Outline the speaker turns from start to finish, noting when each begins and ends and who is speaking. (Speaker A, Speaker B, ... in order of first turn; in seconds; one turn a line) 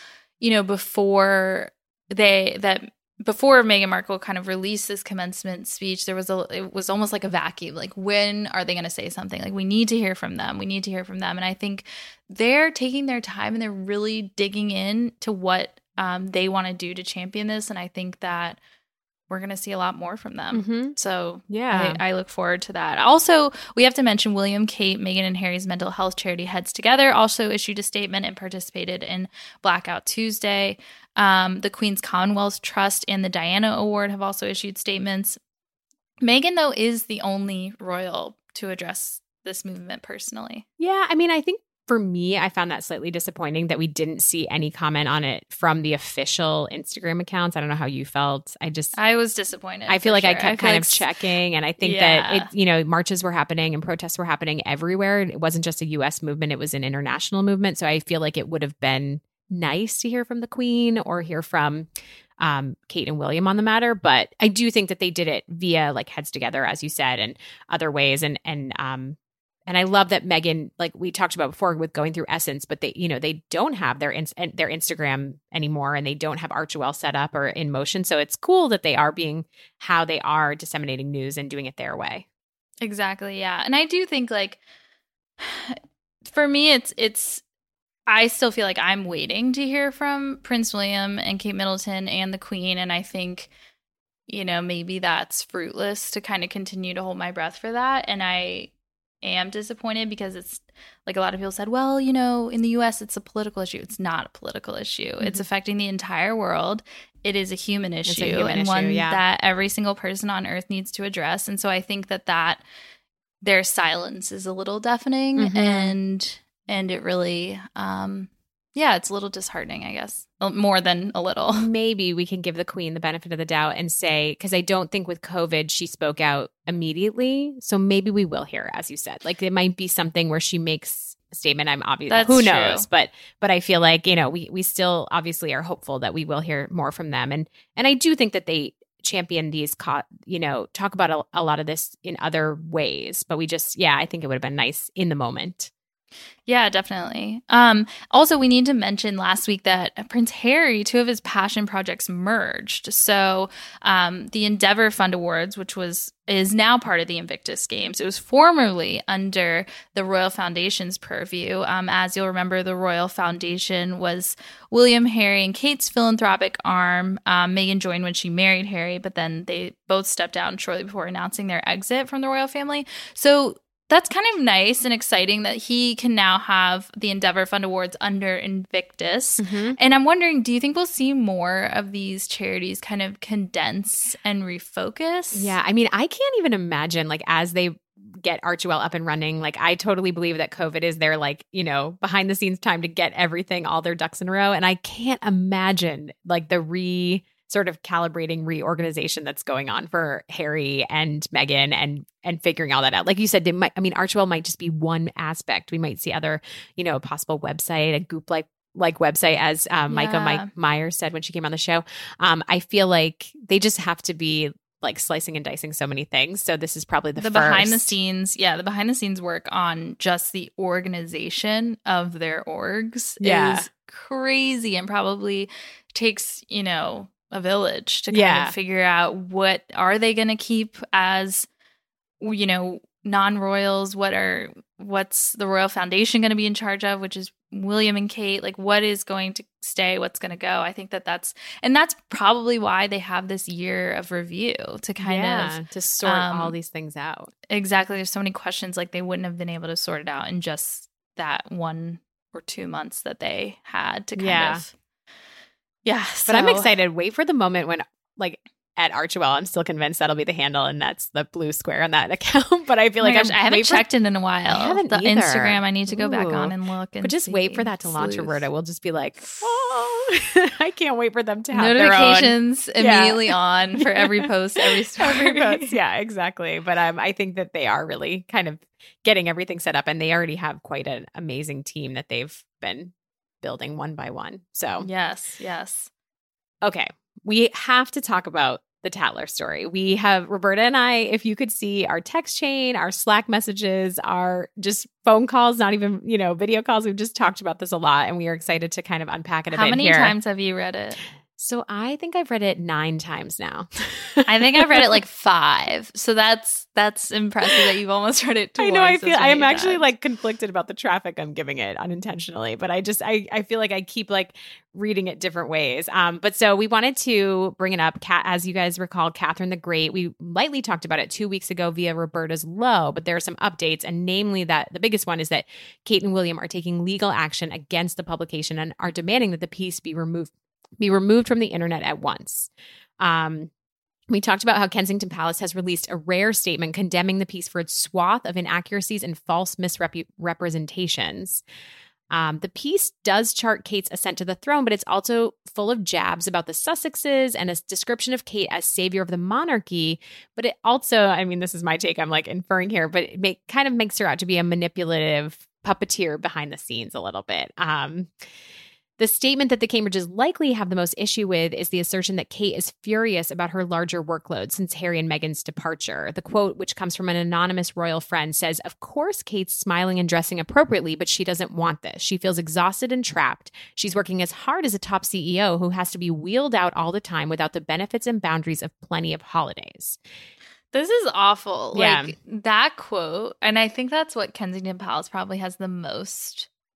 Speaker A: 0.4-18.6
Speaker A: 19.3-35.4
Speaker B: 20.5-20.9
Speaker B: 21.5-22.0
Speaker A: 36.2-40.6
Speaker B: 40.8-49.0
Speaker A: 48.9-51.1
Speaker B: 49.9-69.2
Speaker A: 51.8-52.5
Speaker B: 69.7-82.2
Speaker A: 82.8-84.6
Speaker A: 85.4-87.4
Speaker A: 88.1-93.5
Speaker A: 94.3-112.6
Speaker B: 108.0-109.2
Speaker A: 113.4-121.7
Speaker B: 115.4-116.0
Speaker B: 121.6-145.7
Speaker A: 132.1-132.9
Speaker A: 146.5-185.5
Speaker B: 179.4-179.8
Speaker B: 185.3-217.9
Speaker A: 209.9-210.5
Speaker A: 217.2-231.4
Speaker B: 223.2-223.7
Speaker B: 228.1-228.5
Speaker A: 232.2-246.6
Speaker B: 245.0-247.3
Speaker A: 247.5-254.7
Speaker B: 254.2-254.6
Speaker A: 255.8-256.7
Speaker B: 256.3-263.9
Speaker A: 263.0-268.4
Speaker B: 264.5-284.9
Speaker A: 271.5-275.8
Speaker A: 284.8-285.9
Speaker B: 286.6-300.1
Speaker A: 299.5-301.0
Speaker B: 301.3-304.8
Speaker A: 304.3-309.9
Speaker B: 308.6-333.5
Speaker B: 334.1-341.4
Speaker B: 342.1-358.1
Speaker B: 359.0-380.0
Speaker A: 380.7-386.5
Speaker B: 381.7-382.1